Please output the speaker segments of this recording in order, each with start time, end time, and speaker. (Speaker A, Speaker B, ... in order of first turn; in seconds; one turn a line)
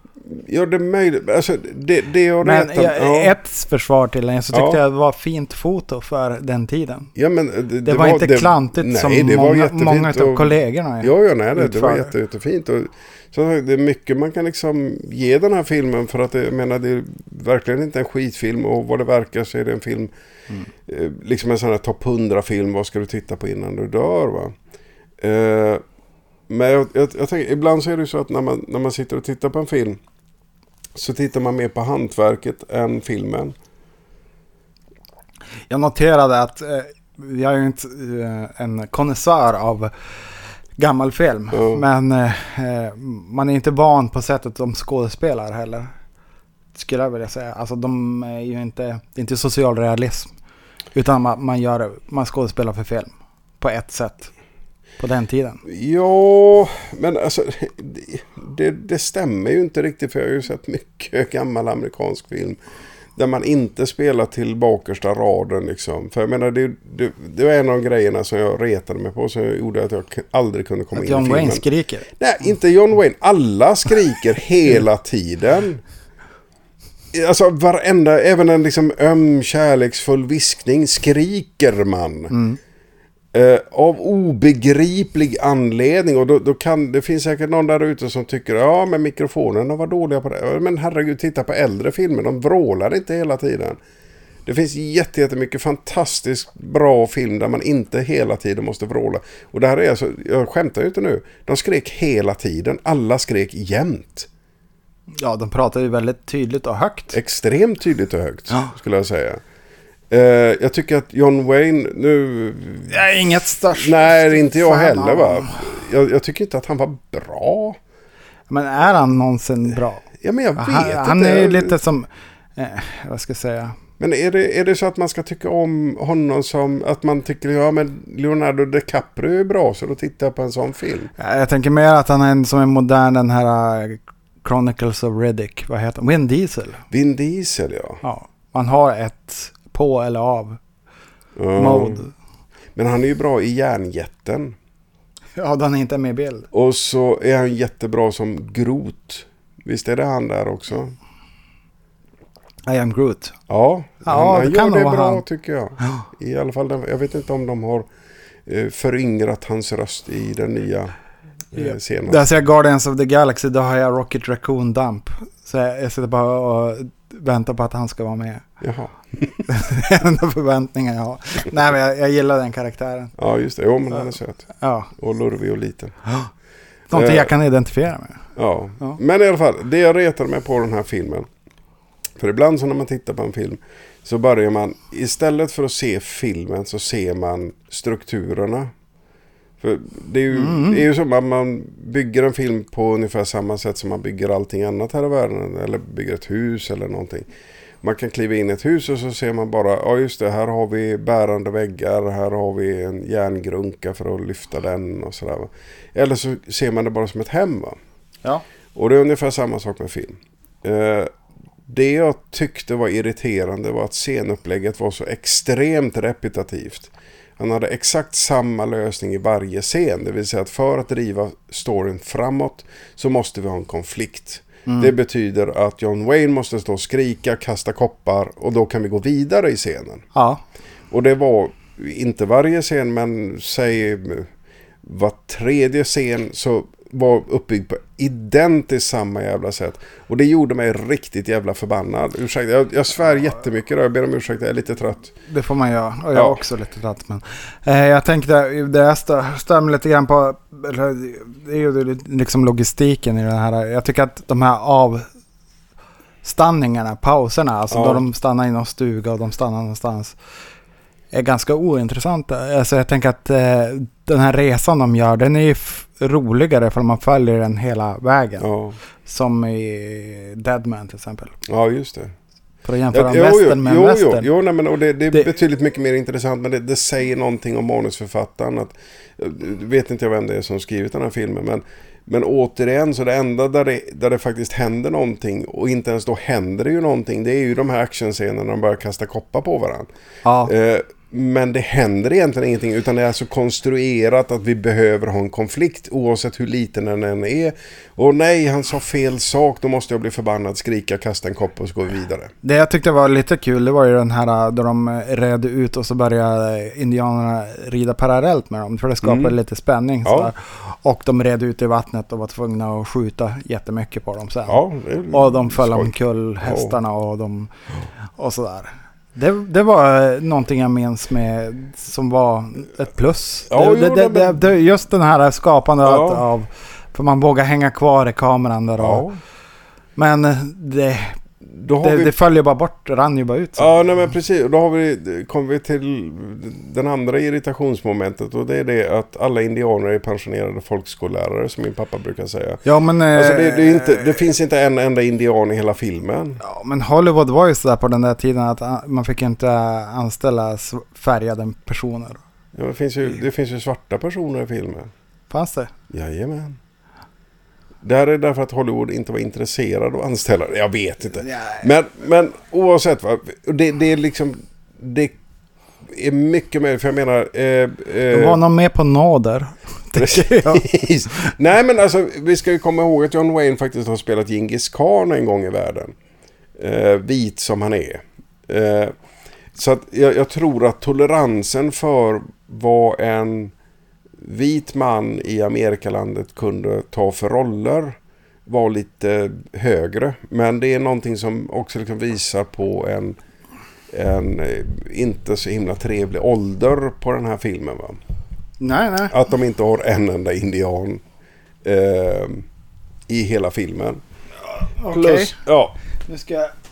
Speaker A: 0.2-3.3
Speaker B: 2.4-7.1
Speaker A: 4.5-4.8
Speaker A: 7.2-20.1
Speaker B: 7.8-12.1
Speaker A: 20.9-24.6
Speaker A: 25.2-25.8
Speaker A: 26.5-30.0
Speaker A: 30.9-33.5
Speaker B: 35.7-39.9
Speaker B: 40.8-45.9
Speaker A: 41.5-41.8
Speaker B: 46.8-50.3
Speaker B: 51.0-54.3
Speaker B: 55.0-55.6
Speaker A: 55.6-62.6
Speaker A: 63.2-71.7
Speaker B: 71.0-72.1
Speaker A: 72.2-75.8
Speaker A: 77.1-82.3
Speaker B: 82.3-82.6
Speaker A: 83.3-93.8
Speaker A: 94.5-104.3
Speaker B: 105.2-107.2
Speaker A: 107.1-109.4
Speaker A: 110.1-113.0
Speaker B: 112.9-115.6
Speaker A: 113.7-117.8
Speaker B: 118.5-120.1
Speaker A: 120.2-121.8
Speaker B: 120.6-123.8
Speaker A: 124.0-131.1
Speaker B: 131.2-136.8
Speaker A: 136.9-138.0
Speaker B: 138.0-140.6
Speaker A: 141.4-142.1
Speaker B: 141.6-142.1
Speaker A: 142.8-144.6
Speaker B: 145.4-146.5
Speaker A: 146.5-151.0
Speaker B: 152.7-153.4
Speaker A: 153.5-157.9
Speaker B: 154.0-155.2
Speaker A: 158.5-160.9
Speaker A: 161.5-162.2
Speaker B: 161.6-168.4
Speaker A: 168.6-169.4
Speaker B: 169.5-173.1
Speaker A: 173.2-176.0
Speaker B: 173.9-174.9
Speaker B: 176.9-178.2
Speaker A: 176.9-177.3
Speaker A: 178.4-181.3
Speaker A: 182.2-188.7
Speaker A: 189.6-197.3
Speaker B: 190.3-190.9
Speaker A: 197.8-207.8
Speaker A: 208.8-211.1
Speaker A: 211.7-230.1
Speaker B: 224.7-224.9
Speaker B: 230.2-230.4
Speaker A: 230.9-234.3
Speaker A: 234.8-245.1
Speaker B: 245.3-255.1
Speaker A: 246.1-246.4
Speaker B: 256.2-260.2
Speaker A: 257.7-258.0
Speaker B: 261.1-268.5
Speaker A: 268.4-268.8
Speaker B: 269.1-271.4
Speaker A: 271.5-272.1
Speaker B: 272.6-274.3
Speaker A: 272.9-289.9
Speaker B: 290.2-290.5
Speaker A: 290.4-302.3
Speaker B: 302.4-317.5
Speaker A: 309.0-309.4
Speaker A: 310.1-310.3
Speaker A: 314.5-316.8
Speaker B: 318.2-329.1
Speaker A: 323.5-324.4
Speaker A: 325.8-326.3
Speaker A: 328.8-329.2
Speaker B: 330.0-331.2
Speaker A: 331.5-332.1
Speaker B: 331.8-333.7
Speaker A: 333.6-346.4
Speaker B: 342.6-344.2
Speaker B: 346.4-352.2
Speaker A: 352.5-354.9
Speaker B: 355.3-355.7
Speaker A: 355.9-356.6
Speaker A: 357.8-365.1
Speaker B: 361.2-361.6
Speaker A: 365.9-368.4
Speaker B: 368.1-370.6
Speaker A: 369.9-375.9
Speaker A: 376.6-378.9
Speaker A: 379.6-383.5
Speaker A: 384.2-393.2
Speaker A: 393.9-398.0
Speaker B: 398.6-399.1
Speaker A: 399.1-401.0
Speaker A: 401.6-402.5
Speaker A: 403.1-404.0
Speaker B: 404.8-405.4
Speaker A: 404.9-405.8
Speaker B: 406.1-406.5